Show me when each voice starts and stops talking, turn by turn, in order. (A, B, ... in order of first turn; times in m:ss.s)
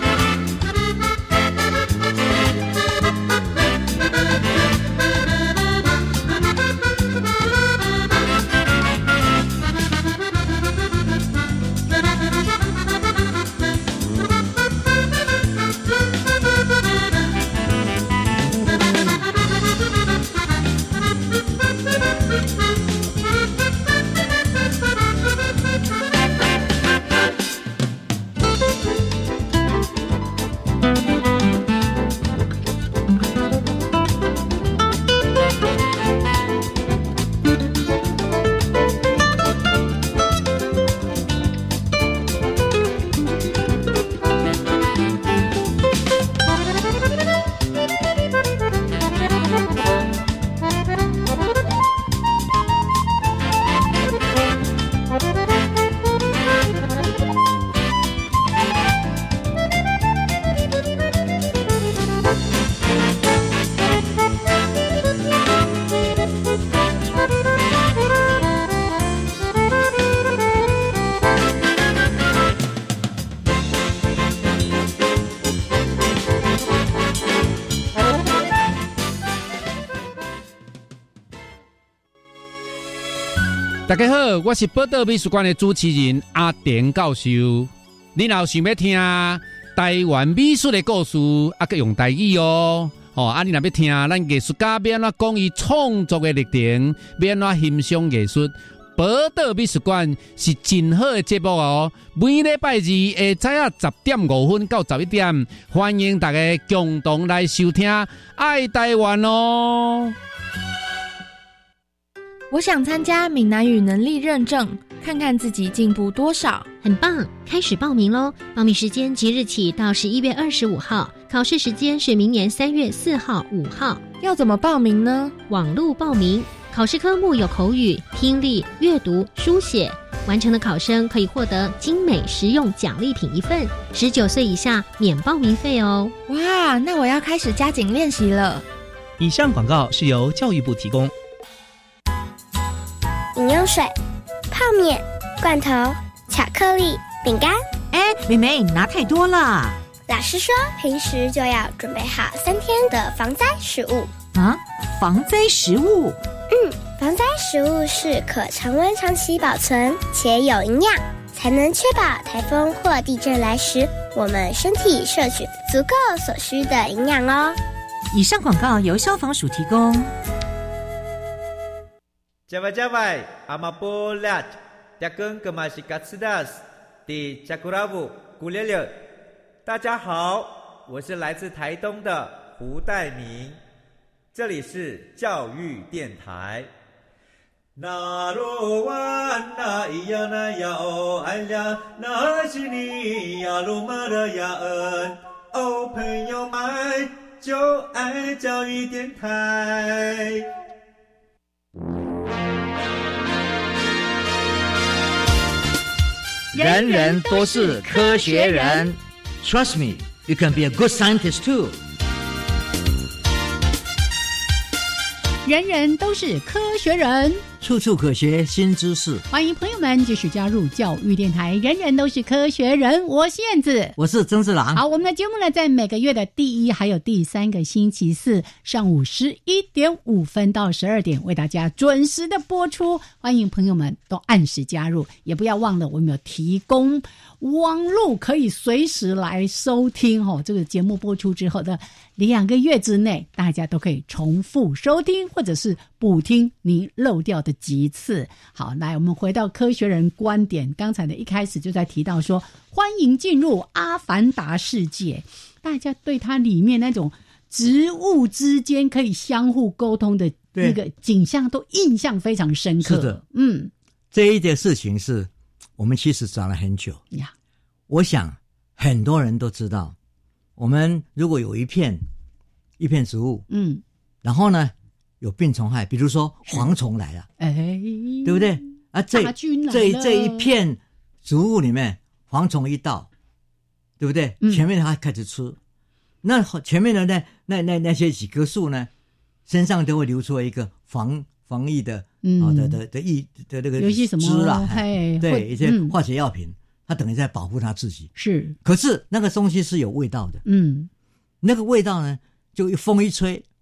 1:23.9-1:50.1 A
1:52.5-1:56.7 B
1:56.8-2:04.0 C
2:04.2-2:05.4 B
2:05.5-2:16.1 C
2:16.3-2:18.6 B
2:19.2-2:21.1 D
2:23.4-2:23.9 E
2:24.5-2:27.6 E
2:27.9-2:29.8 F
2:30.1-2:34.1 E
2:34.3-2:36.2 F
2:36.5-2:47.6 E
2:48.1-2:50.1 F
2:52.5-2:59.0 G
2:59.6-3:03.6 G
3:04.3-3:06.7 G
3:07.8-3:20.5 G
3:26.5-3:28.9 H
3:26.5-3:31.8 I
3:35.4-3:37.4 H
3:37.6-3:39.2 I
3:39.3-3:44.0 H
3:44.0-3:44.8 I
3:44.7-4:23.7 H
4:22.8-4:23.2 I
4:24.1-4:27.0 I
4:27.9-4:30.0 I
4:30.6-4:32.0 I
4:32.8-4:33.5 I
4:33.5-4:33.8 H
4:34.2-4:37.3 I
4:37.4-4:38.6 H
4:38.2-4:43.1 I
4:39.1-4:40.5 H
4:44.0-4:45.6 I
4:46.2-4:48.9 I
4:49.5-4:58.1 I
4:52.2-4:52.8 H
4:53.8-4:56.0 H
4:58.2-4:58.6 H
4:58.6-5:00.4 I
5:00.5-5:00.9 H
5:01.4-5:03.4 I